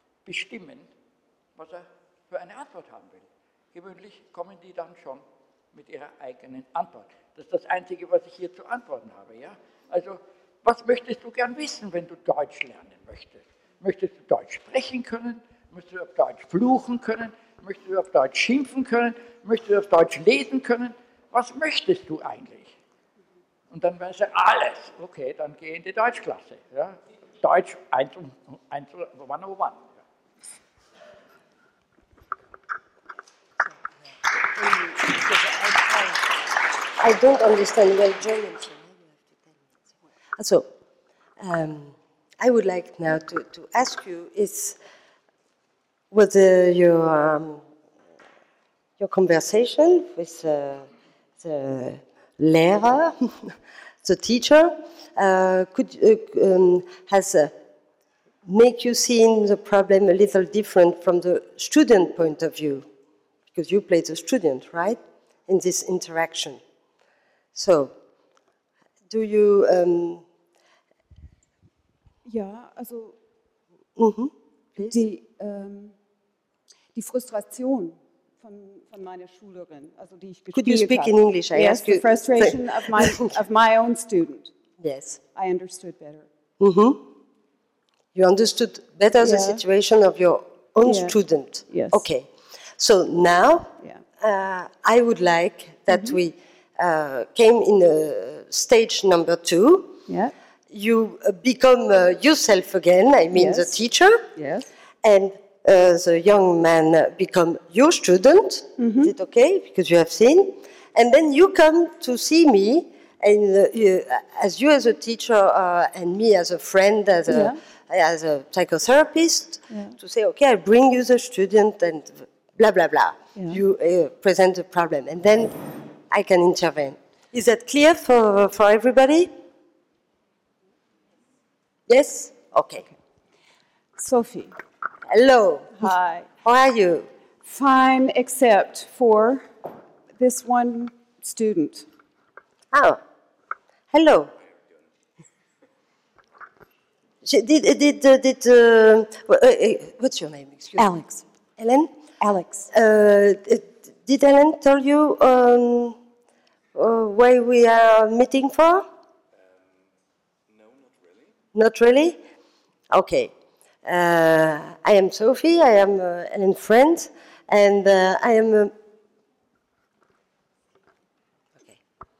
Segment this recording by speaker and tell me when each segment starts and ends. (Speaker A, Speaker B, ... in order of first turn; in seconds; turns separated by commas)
Speaker A: 0.3-0.9, Speaker A: 1.6-22.7, Speaker A: 23.7-29.8, Speaker B: 34.6-36.2, Speaker B: 37.0-39.2, Speaker B: 40.4-40.7, Speaker B: 41.4-44.8, Speaker B: 46.1-47.6, Speaker B: 49.0-50.9, Speaker B: 51.4-57.5, Speaker B: 58.5-62.9, Speaker B: 63.5-66.6, Speaker B: 67.5-67.9, Speaker B: 69.1-70.2, Speaker C: 72.2-73.2, Speaker B: 74.0-75.0, Speaker C: 74.8-76.0, Speaker C: 77.0-84.5, Speaker B: 80.5-83.3, Speaker B: 84.8-85.2, Speaker C: 85.3-86.3, Speaker B: 86.6-87.1, Speaker B: 88.2-92.3, Speaker C: 89.2-89.6, Speaker C: 90.8-91.2, Speaker C: 91.7-92.0, Speaker B: 92.8-100.0, Speaker C: 95.9-96.2, Speaker B: 100.7-104.3, Speaker C: 103.3-103.7, Speaker C: 104.4-104.7, Speaker B: 105.0-129.3, Speaker C: 108.8-109.1, Speaker C: 117.3-117.6, Speaker B: 131.9-132.9, Speaker C: 134.0-134.5, Speaker B: 135.1-135.9, Speaker C: 135.8-136.3, Speaker B: 136.4-137.1, Speaker C: 137.5-139.5, Speaker C: 140.2-141.9, Speaker B: 142.7-143.0, Speaker B: 143.9-144.3, Speaker B: 147.2-150.9, Speaker C: 150.8-151.2, Speaker B: 151.6-151.9, Speaker C: 152.2-152.7, Speaker B: 152.7-156.0, Speaker B: 156.8-158.9, Speaker B: 161.5-162.2, Speaker B: 162.9-163.3, Speaker B: 163.8-168.7